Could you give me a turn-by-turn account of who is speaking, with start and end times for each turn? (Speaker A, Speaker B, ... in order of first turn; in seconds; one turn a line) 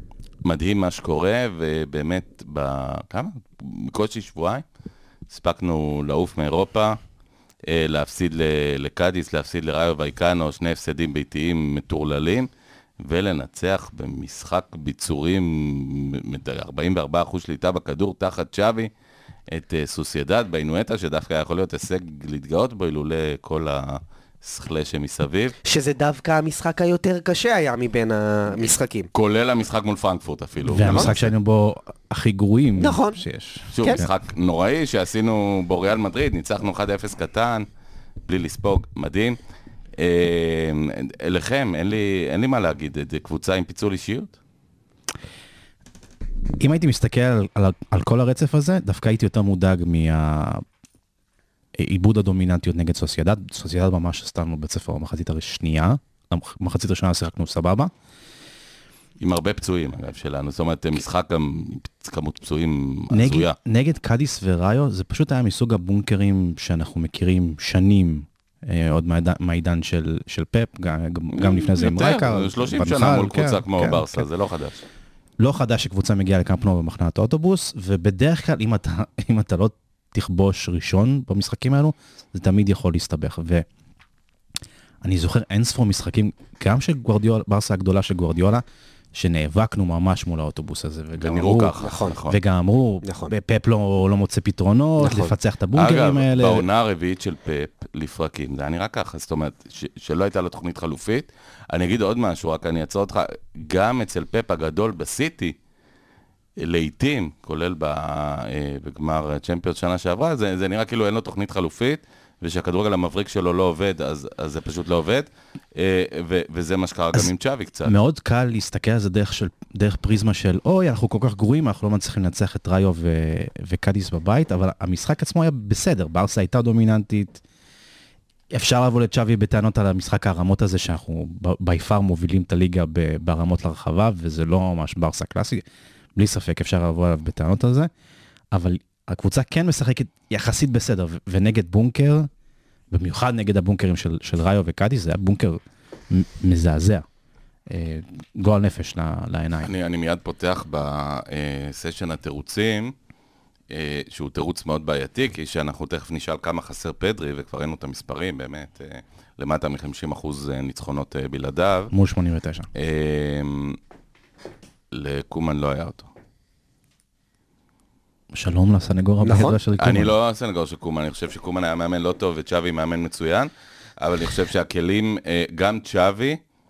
Speaker A: 0.5-4.6
Speaker A: 5.3-7.0
Speaker A: 7.7-12.5
Speaker A: 13.0-18.9
Speaker A: 19.5-25.6
Speaker B: 25.6-29.1
Speaker A: 29.1-31.3
Speaker C: 30.7-34.1
Speaker B: 30.8-31.1
Speaker B: 32.8-33.2
Speaker A: 33.7-37.7
Speaker B: 33.8-34.0
Speaker A: 38.3-39.4
Speaker A: 40.0-44.4
Speaker C: 46.6-50.6
Speaker C: 51.8-57.9
Speaker A: 59.2-63.5
Speaker C: 63.1-74.2
Speaker A: 71.3-74.8
Speaker C: 75.4-83.7
Speaker C: 85.0-96.7
Speaker A: 91.2-92.4
Speaker B: 91.8-92.2
Speaker B: 93.0-93.3
Speaker B: 95.0-95.3
Speaker A: 95.7-105.6
Speaker A: 106.6-117.9
Speaker C: 117.8-127.4
Speaker C: 128.5-135.6
Speaker C: 136.2-137.9
Speaker C: 138.5-142.3
Speaker C: 142.9-147.1
Speaker C: 147.7-149.7
Speaker A: 149.6-152.9
Speaker A: 153.7-161.9
Speaker C: 161.9-162.7
Speaker A: 162.8-163.8
Speaker A: 164.9-166.1
Speaker C: 168.3-170.2
Speaker B: 169.2-169.6
Speaker A: 169.8-176.4